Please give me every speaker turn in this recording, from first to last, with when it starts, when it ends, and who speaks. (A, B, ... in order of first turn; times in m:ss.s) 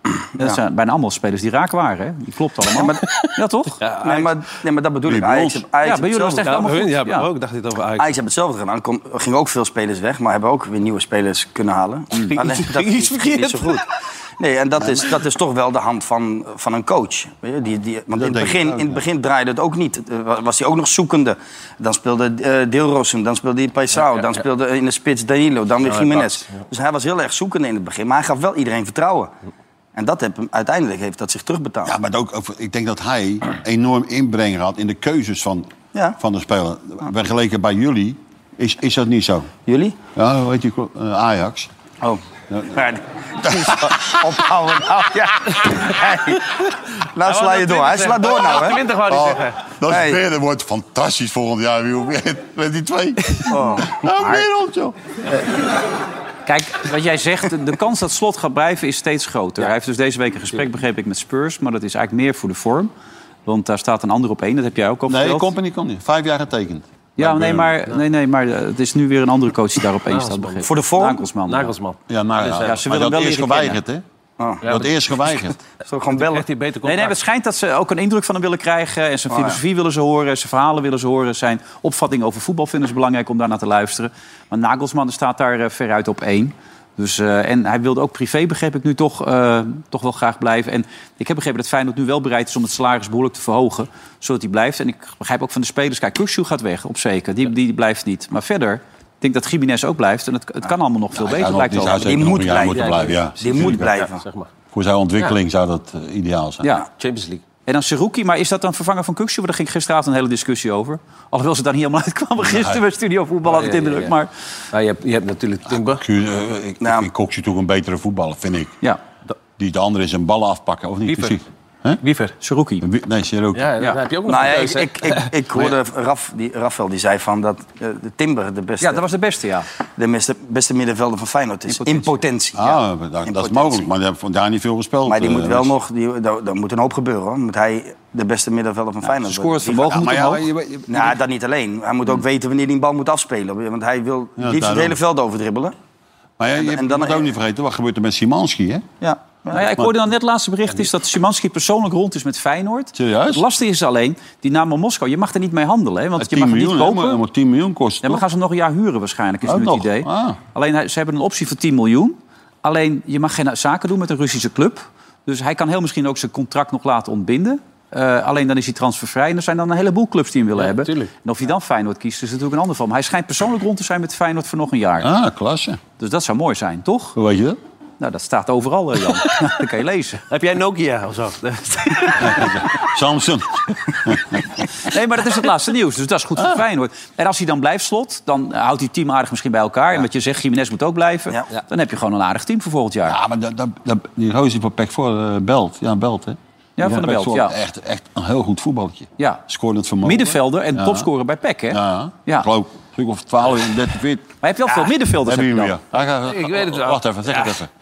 0:00.4-0:03.8 A
0:02.7-0:03.0 B
0:03.8-0:04.3 C
0:04.0-0:06.7 B
0:05.0-0:05.6 D
0:05.8-0:07.3 A
0:06.4-0:08.2 C
0:08.0-0:13.9 B
0:12.2-0:13.8 C
0:14.4-0:29.3 B
0:18.2-0:19.0 D
0:25.8-0:26.6 C
0:30.0-0:32.0 B
0:31.8-0:39.5 D
0:39.7-0:40.0 B
0:40.2-0:41.7 D
0:42.0-0:46.5 B
0:42.5-0:42.8 D
0:43.4-0:44.2 D
0:47.2-0:48.8 B
0:47.2-0:49.6 C
0:49.1-0:55.0 D
0:49.9-0:50.2 B
0:53.5-0:53.9 B
0:56.5-1:02.9 A
1:03.5-1:05.5 A
1:05.1-1:07.8 D
1:07.2-1:11.7 A
1:10.1-1:10.7 C
1:10.6-1:11.2 B
1:11.5-1:12.8 C
1:12.1-1:14.0 D
1:12.6-1:13.8 A
1:14.4-1:14.8 B
1:14.6-1:15.6 D
1:15.8-1:16.4 B
1:16.1-1:17.2 C
1:16.8-1:42.0 A
1:19.3-1:19.6 B
1:41.2-1:43.9 D
1:41.8-1:44.2 B
1:42.5-1:44.5 C
1:44.7-1:46.7 D
1:47.0-1:47.4 C
1:47.7-1:54.3 A
1:52.4-1:52.8 D
1:53.4-1:54.1 C
1:54.7-1:56.0 C
1:55.8-1:58.8 D
1:56.8-1:57.1 B
1:59.6-2:02.0 D
2:01.1-2:01.4 C
2:02.0-2:02.4 C
2:02.4-2:02.8 A
2:02.8-2:03.7 D
2:03.6-2:05.7 C
2:04.3-2:09.1 B
2:08.8-2:09.7 A
2:10.0-2:13.9 B
2:11.7-2:12.1 A
2:12.6-2:15.7 D
2:15.1-2:20.0 B
2:19.0-2:20.5 A
2:19.7-2:21.2 D
2:20.9-2:25.8 B
2:24.4-2:25.0 D
2:26.4-2:28.9 D
2:26.6-2:27.3 B
2:29.0-2:29.7 B
2:29.5-2:37.2 A
2:33.0-2:33.4 D
2:36.2-2:38.2 D
2:38.0-2:55.1 A
2:39.5-2:40.4 D
2:50.6-2:51.1 C
2:55.0-2:55.8 D
2:56.0-2:57.2 A
2:57.2-2:57.6 D
2:58.0-3:00.2 A
3:00.3-3:02.6 C
3:02.2-3:04.2 D
3:04.9-3:13.2 A
3:13.1-3:21.1 D
3:16.8-3:17.6 A
3:19.2-3:19.4 A
3:20.0-3:22.5 A
3:21.7-3:24.3 D
3:24.4-3:25.8 A
3:25.2-3:27.7 D
3:26.3-3:27.6 C